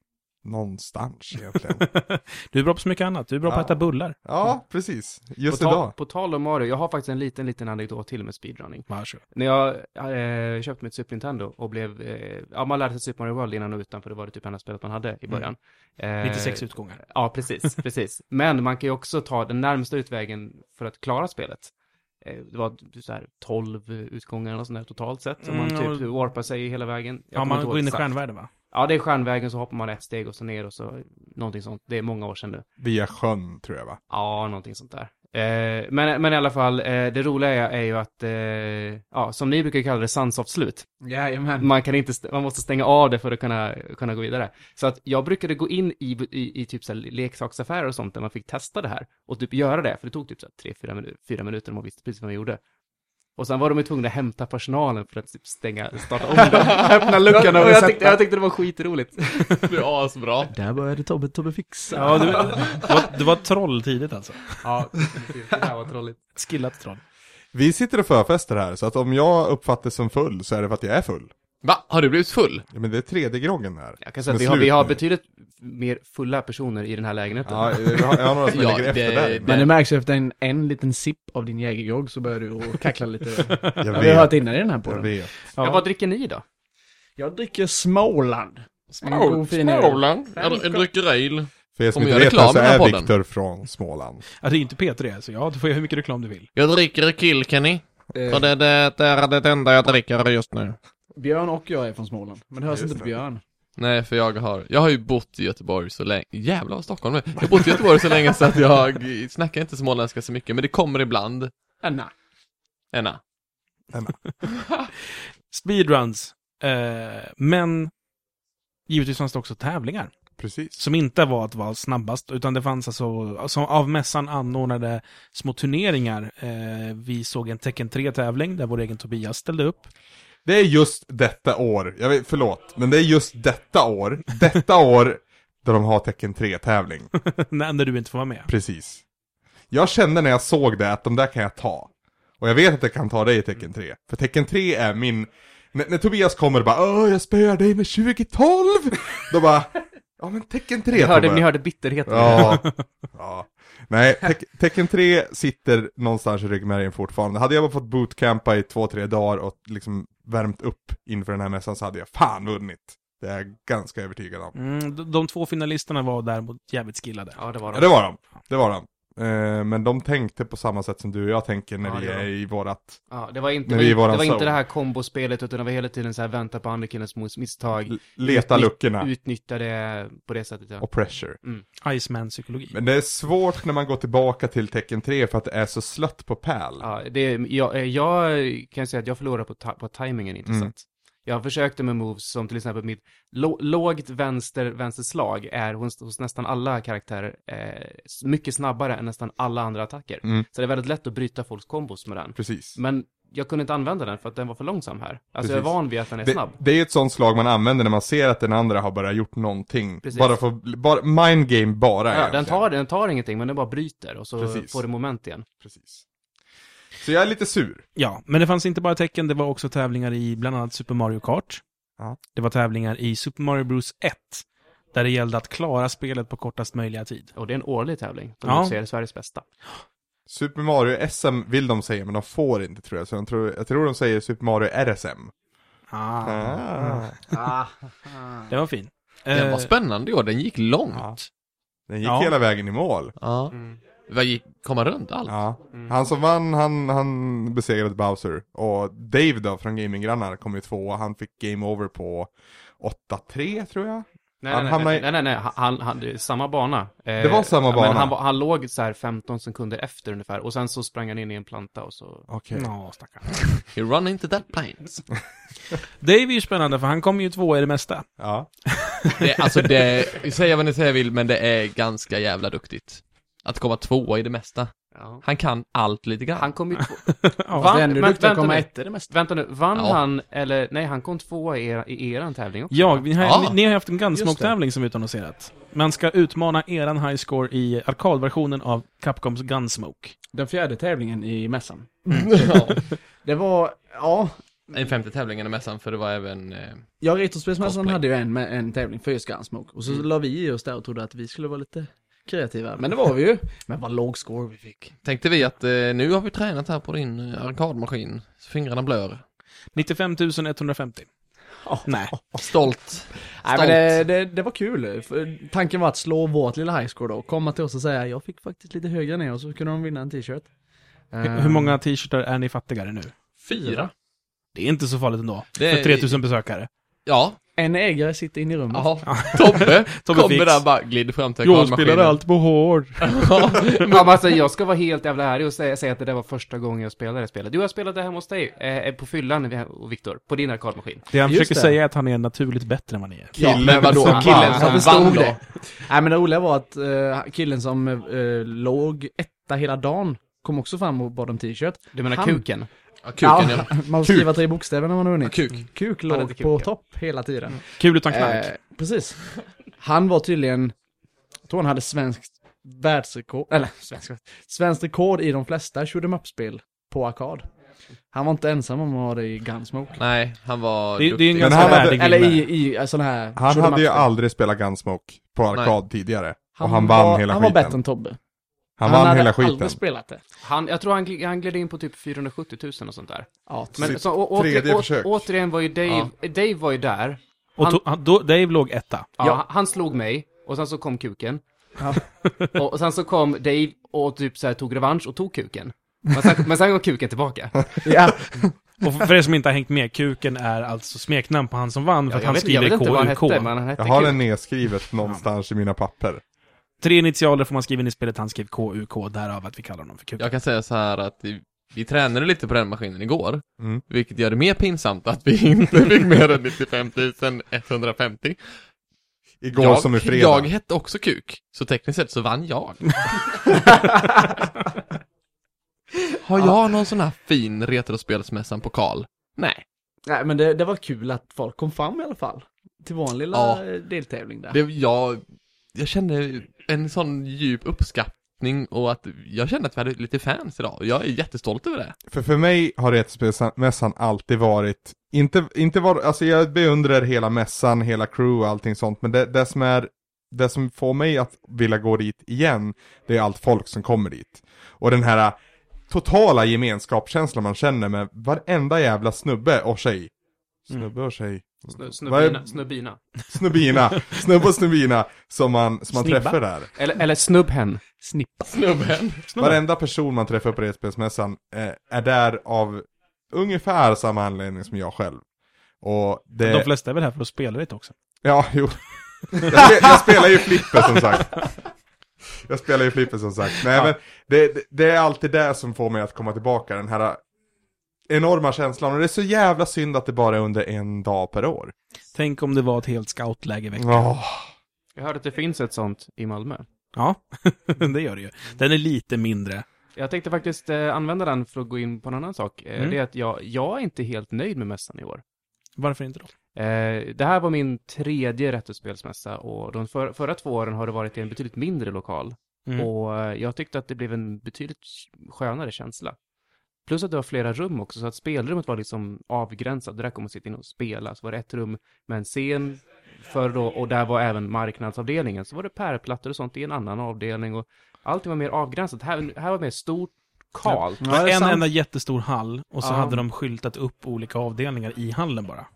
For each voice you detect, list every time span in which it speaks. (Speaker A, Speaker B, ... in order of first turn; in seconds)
Speaker A: 0.4-1.9, 3.5-5.9, 32.8-34.0, 67.5-71.3, 72.7-75.0, 77.5-79.7, 83.8-85.3, 91.8-94.2, 102.7-103.1, 120.4-120.8, 130.4-137.1, 138.5-139.0, 139.7-151.5, 152.1-164.6, 167.7-173.0, 173.7-174.6, 177.9-179.1, 180.8-181.4, 182.7-186.9, 190.5-190.7, 202.4-202.8, 205.4-212.7, 214.4-214.8, 215.6-216.0, 217.0-217.8, 230.3-235.3, 236.2-237.2, 241.9-243.1, 245.3-255.1, 257.2-258.2, 262.3-262.7, 268.2-268.5, 343.4-344.8, 371.4-372.1, 373.4-377.8, 378.8-379.8, 383.8-385.3, 403.8-406.2, 419.4-420.5, 442.1-455.4, 455.9-460.1, 460.7-462.6, 463.3-466.7, 469.4-475.2, 475.8-476.7, 478.2-481.5, 482.4-487.2, 488.1-491.7, 493.8-494.5
Speaker B: 1.7-4.2, 8.9-9.2, 16.2-17.0, 25.4-26.1, 27.4-28.5, 61.9-64.6, 66.4-67.0, 83.4-83.8, 85.6-85.8, 94.4-96.5, 115.5-117.9, 118.9-120.1, 120.8-129.9, 137.2-138.5, 164.6-167.4, 181.8-182.8, 218.0-221.6, 222.3-227.3, 228.4-228.8, 235.9-237.1, 238.5-239.7, 242.0-242.3, 262.6-263.6, 266.0-268.1, 268.7-269.3, 277.1-277.8, 282.7-290.1, 309.8-311.1, 311.9-312.1, 321.2-323.1, 324.5-326.7, 329.1-330.7, 331.4-333.3, 341.1-344.4, 357.6-358.5, 371.0-372.5, 387.6-389.1, 392.2-392.6, 398.8-403.5, 406.8-410.3, 466.0-466.4, 469.3-469.6, 476.4-477.9, 492.1-494.1, 496.9-499.7, 505.8-506.3, 530.7-535.7
Speaker C: 5.5-21.7, 22.2-28.1, 28.7-32.6, 34.1-40.9, 41.6-52.6, 53.4-59.7, 62.1-62.4, 64.6-66.2, 74.0-78.3, 85.6-86.4, 150.9-152.7, 167.4-168.0, 171.8-172.3, 173.1-180.9, 186.8-206.6, 210.0-210.4, 212.1-215.5, 227.3-229.4, 245.7-246.0, 254.4-262.3, 274.9-275.2, 276.4-283.1, 333.8-341.1, 344.1-345.4, 351.9-352.7, 356.1-356.7, 380.4-387.8, 389.2-391.4, 392.6-397.9, 402.1-404.2, 461.8-463.0, 466.8-467.9, 495.0-496.7, 500.0-505.2, 506.6-516.2, 516.9-531.1, 532.8-533.2
Speaker D: 41.0-41.7, 56.4-58.2, 60.5-62.9, 79.5-85.1, 87.2-90.9, 98.2-98.5, 101.2-103.4, 111.8-112.1, 237.3-238.5, 277.6-279.1, 284.1-284.5, 290.3-294.4, 297.0-304.9, 311.6-312.6, 313.1-320.5, 321.1-321.8, 323.6-323.9, 327.6-329.1, 341.2-341.8, 343.4-352.4, 353.2-360.7, 361.5-367.5, 368.1-370.0, 371.4-374.1, 376.6-378.2, 378.8-380.2, 383.5-384.0, 391.8-392.0, 397.8-398.5, 423.5-424.4, 430.1-434.6, 467.9-468.5, 531.0-531.6
Speaker E: 59.6-60.5, 71.6-72.7, 78.5-79.7, 89.0-93.1, 96.5-100.8, 103.8-111.5, 112.9-113.2, 239.3-241.3, 243.2-243.6, 244.1-245.3, 263.7-265.1, 269.2-276.5, 279.8-280.0, 283.2-283.6, 292.1-292.9, 294.7-296.9, 297.6-298.0, 305.0-309.2, 312.4-314.0, 323.4-323.9, 325.6-326.2, 327.1-327.4, 328.7-332.2, 333.0-334.2, 343.4-345.4, 353.0-354.4, 355.2-355.7, 370.0-371.7, 410.2-418.6, 419.6-423.6, 426.2-429.6, 433.3-433.6, 434.5-435.2, 435.7-441.9, 468.5-469.3